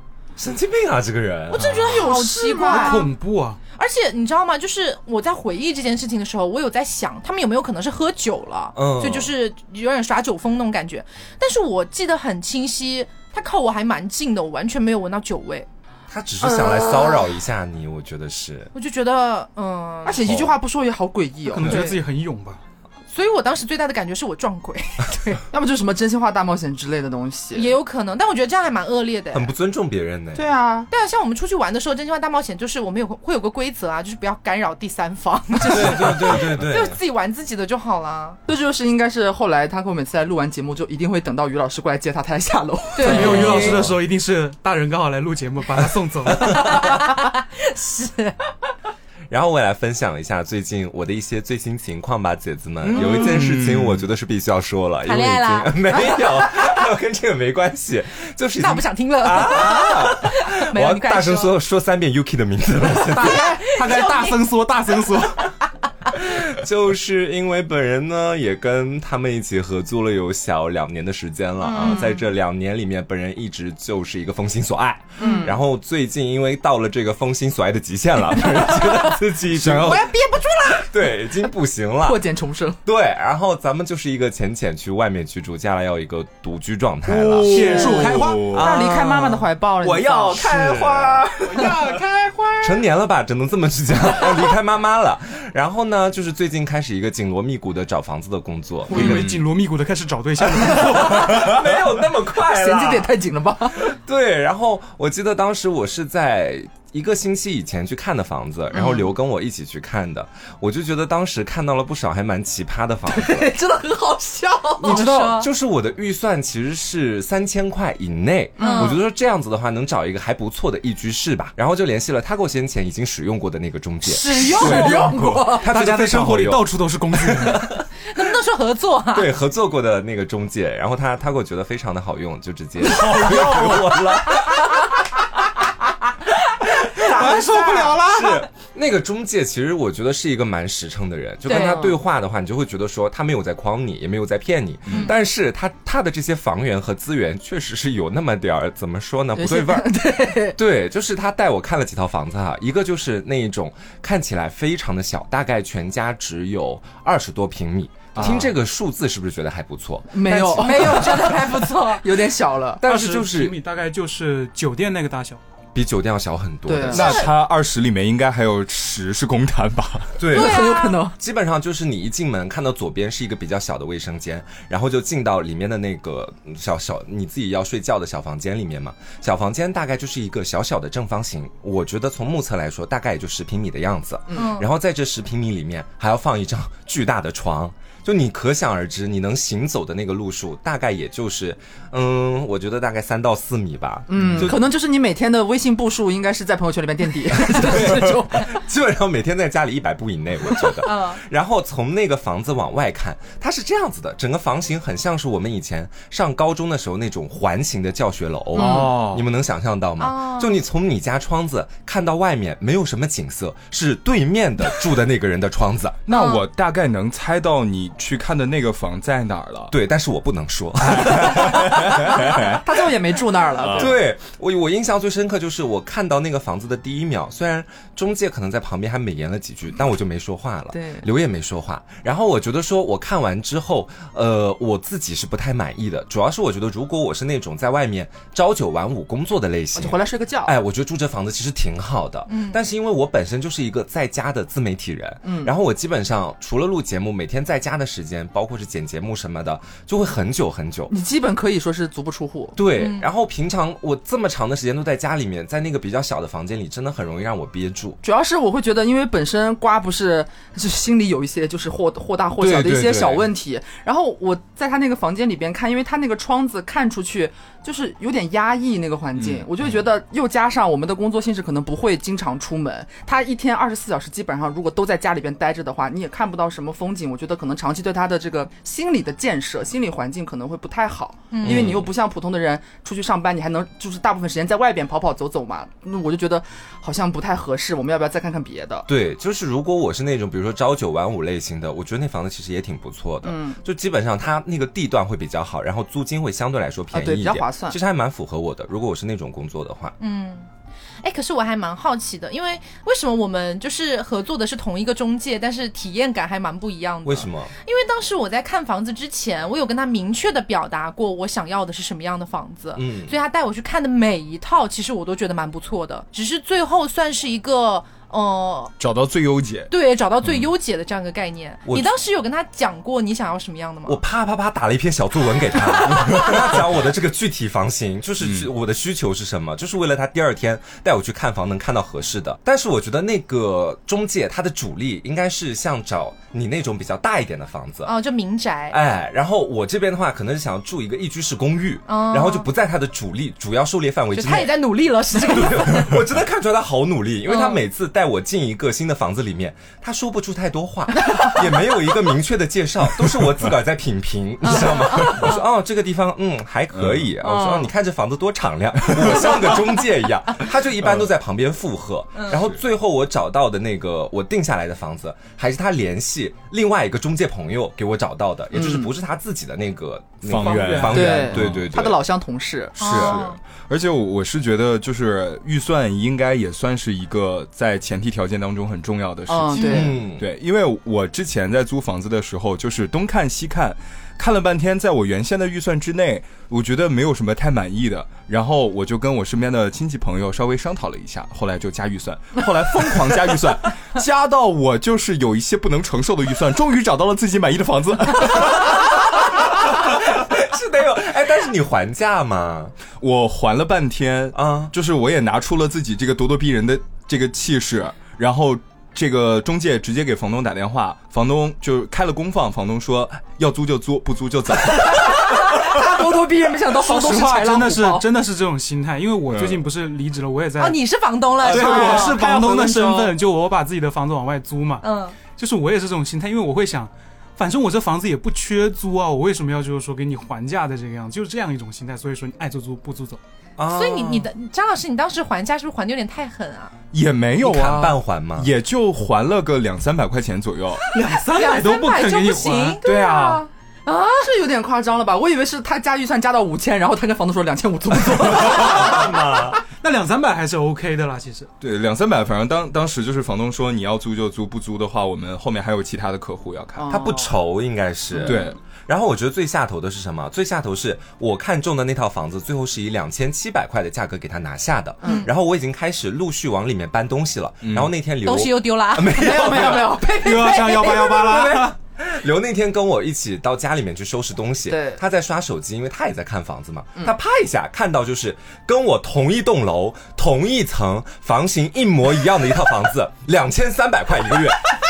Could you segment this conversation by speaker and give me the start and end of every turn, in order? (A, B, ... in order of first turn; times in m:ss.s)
0:00.4-0:02.0 A
0:01.5-0:03.1 B
0:01.7-0:03.0 C
0:02.6-0:03.6 D
0:03.8-0:15.7 B
0:08.8-0:09.3 A
0:16.1-0:18.7 A
0:16.4-0:17.2 C
0:18.7-0:20.4 B
0:20.0-0:21.9 C
0:20.2-0:20.5 A
0:21.5-0:22.6 D
0:21.6-0:21.9 B
0:23.1-0:25.4 B
0:25.5-0:27.7 C
0:27.5-0:29.5 B
0:29.3-0:30.4 A
0:30.4-0:30.9 C
0:30.9-0:38.4 B
0:35.6-0:37.0 A
0:38.5-0:43.9 C
0:43.0-0:43.8 B
0:43.0-0:46.9 D
0:43.4-0:43.9 A
0:46.5-0:48.4 B
0:49.3-1:03.4 A
0:52.9-0:53.3 B
0:52.9-0:54.0 E
0:55.0-0:56.2 B
0:58.6-1:01.5 B
1:03.2-1:04.4 B
1:03.2-1:03.6 C
1:03.3-1:05.5 D
1:06.1-1:20.1 A
1:11.6-1:12.1 B
1:11.7-1:12.1 C
1:15.2-1:15.6 C
1:18.6-1:20.9 C
1:19.6-1:19.9 E
1:20.7-1:22.2 A
1:22.0-1:22.8 C
1:22.8-1:31.3 A
1:27.1-1:28.8 E
1:27.4-1:32.0 C
1:27.5-1:28.5 D
1:31.5-1:32.8 D
1:32.6-1:39.3 A
1:38.9-1:39.2 C
1:38.9-1:41.4 D
1:39.0-1:39.4 E
1:40.7-1:43.1 A
1:42.4-1:43.9 C
1:43.8-1:53.5 A
1:48.8-1:49.0 C
1:53.1-1:55.0 C
1:54.8-2:07.8 A
1:54.8-1:55.5 B
1:58.6-1:58.9 C
1:58.6-1:59.0 B
2:04.1-2:05.7 C
2:04.1-2:05.1 B
2:05.5-2:07.7 D
2:08.1-2:09.3 B
2:09.1-2:15.0 A
2:13.0-2:13.9 E
2:17.0-2:18.4 D
2:17.0-2:17.2 A
2:17.0-2:18.0 B
2:18.0-2:29.9 A
2:21.4-2:21.9 B
2:21.5-2:21.9 C
2:29.4-2:30.6 C
2:30.5-2:41.3 A
2:38.1-2:38.5 E
2:40.1-2:42.8 C
2:40.6-2:42.0 B
2:42.8-2:43.6 A
2:42.8-2:45.4 D
2:45.7-2:47.3 A
2:46.7-2:47.2 C
2:46.9-2:50.2 E
2:47.0-2:47.3 B
2:50.2-3:14.6 A
2:50.2-2:51.2 C
2:50.3-2:51.0 B
3:04.3-3:04.7 B
3:14.1-3:18.5 C
3:14.2-3:14.5 E
3:17.3-3:36.0 A
3:20.8-3:21.2 B
3:28.5-3:29.0 C
3:28.5-3:29.3 E
3:30.0-3:30.6 B
3:36.0-3:39.7 E
3:36.1-3:36.4 B
3:39.7-3:42.4 A
3:40.8-3:42.6 E
3:41.9-3:43.9 C
3:43.6-3:43.9 E
3:43.8-4:10.9 A
3:50.7-3:51.0 C
3:59.8-4:00.5 C
4:02.3-4:02.6 B
4:05.2-4:05.5 C
4:10.9-4:12.6 C
4:12.6-4:18.0 A
4:12.8-4:13.1 B
4:18.0-4:48.9 C
4:22.4-4:23.3 A
4:29.2-4:29.5 E
4:41.3-4:41.8 B
4:41.4-4:41.9 A
4:48.9-4:59.9 A
4:53.2-4:53.6 C
4:56.9-4:57.8 C
5:00.0-5:00.5 B
5:01.0-5:18.7 B
5:07.0-5:07.5 A
5:12.8-5:13.1 A
5:18.8-5:19.7 E
5:19.7-5:24.0 B
5:21.6-5:21.9 A
5:23.9-5:37.9 A
5:28.2-5:28.5 E
5:37.8-5:38.8 B
5:38.7-5:44.5 A
5:41.9-5:42.5 B
5:44.1-5:46.0 B
5:45.1-6:12.0 A
5:47.3-5:47.6 B
5:54.4-5:55.4 B
5:56.8-5:57.1 E
5:57.2-5:57.7 C
6:08.5-6:08.9 C
6:10.2-6:11.7 E
6:10.5-6:10.9 D
6:10.9-6:12.8 C
6:12.8-6:13.4 B
6:12.8-6:13.2 A
6:12.8-6:38.9 E
6:19.3-6:20.0 C
6:19.5-6:19.9 B
6:19.7-6:20.3 A
6:38.6-6:38.8 A
6:39.5-6:42.8 A
6:43.0-6:56.1 E
6:44.3-6:44.7 A
6:55.0-6:58.0 C
6:56.7-7:00.8 D
6:59.3-6:59.6 E
7:00.6-7:02.2 B
7:01.4-7:13.2 D
7:01.4-7:03.1 C
7:01.6-7:01.9 E
7:04.8-7:05.2 B
7:13.6-7:14.3 A
7:13.7-7:16.7 B
7:16.9-7:20.8 E
7:17.4-7:18.5 A
7:20.9-7:22.8 D
7:21.1-7:22.9 B
7:22.8-7:23.5 E
7:22.8-7:23.4 C
7:23.9-7:24.1 B
7:24.1-7:29.2 C
7:28.2-7:29.6 A
7:29.8-7:31.5 D
7:31.6-7:37.1 E
7:36.8-7:37.3 C
7:36.9-8:04.7 A
7:38.2-7:38.6 E
7:45.0-7:45.3 B
7:47.6-7:47.9 E
7:48.2-7:49.7 B
7:49.1-7:51.4 C
7:50.1-7:51.7 D
7:54.7-7:55.0 C